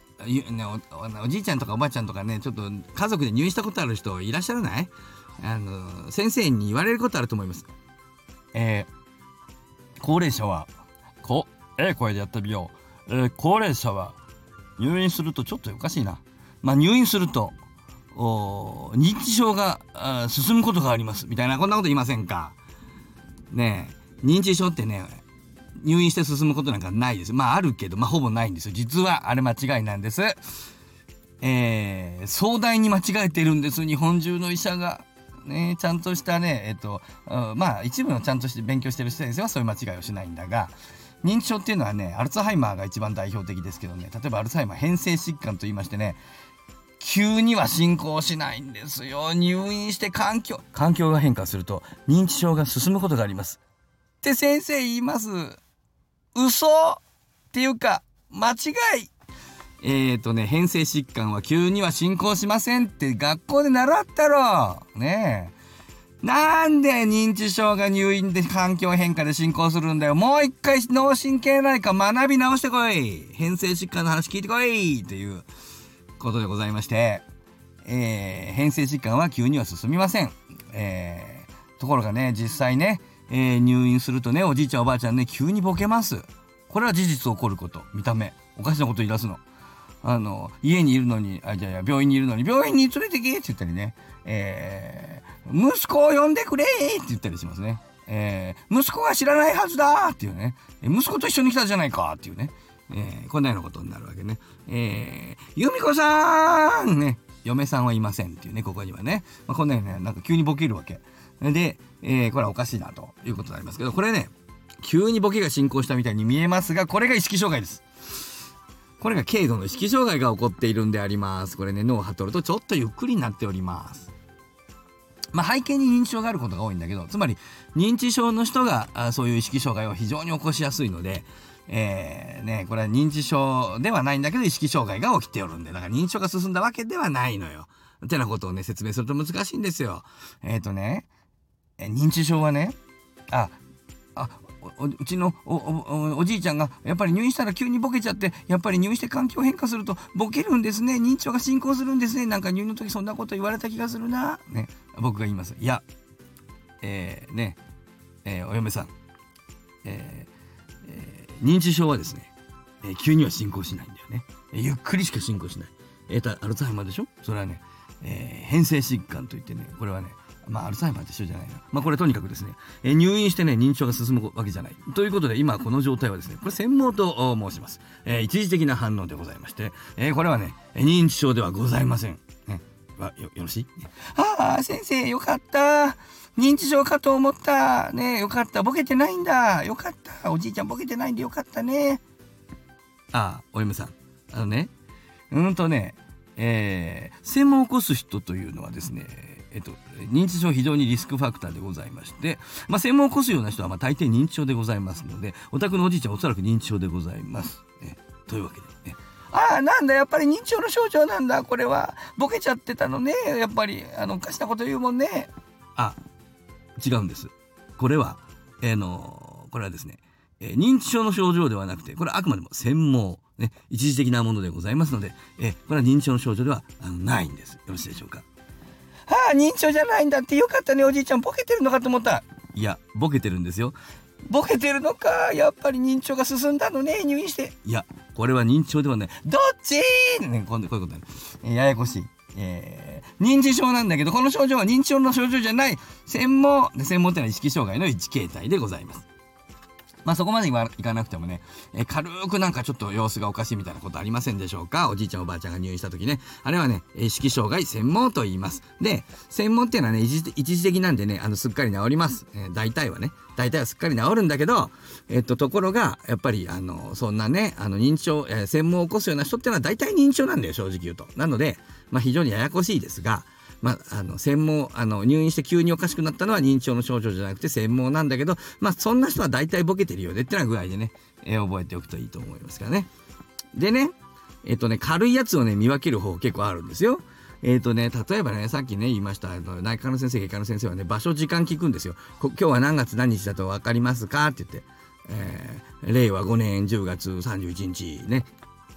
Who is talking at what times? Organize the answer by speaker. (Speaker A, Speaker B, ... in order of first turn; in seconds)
Speaker A: 0.2-7.7, 8.5-8.9, 10.0-10.7, 11.2-14.2, 14.8-17.6, 18.1-22.6, 23.5-25.2, 25.8-30.4, 31.4-46.2, 47.0-53.6, 54.2-55.6, 56.3-59.1, 59.8-65.5, 66.2-75.5, 76.2-77.2, 77.8-89.4, 90.0-117.8, 119.0-124.1, 125.3-141.1, 141.8-142.8, 143.3-143.6, 144.2-155.8, 156.8-157.6, 158.2-158.9, 159.8-160.3, 160.8-162.3, 162.8-192.0, 193.1-194.7, 195.3-216.0, 216.8-228.3, 229.1-249.1, 250.1-282.9, 283.5-298.3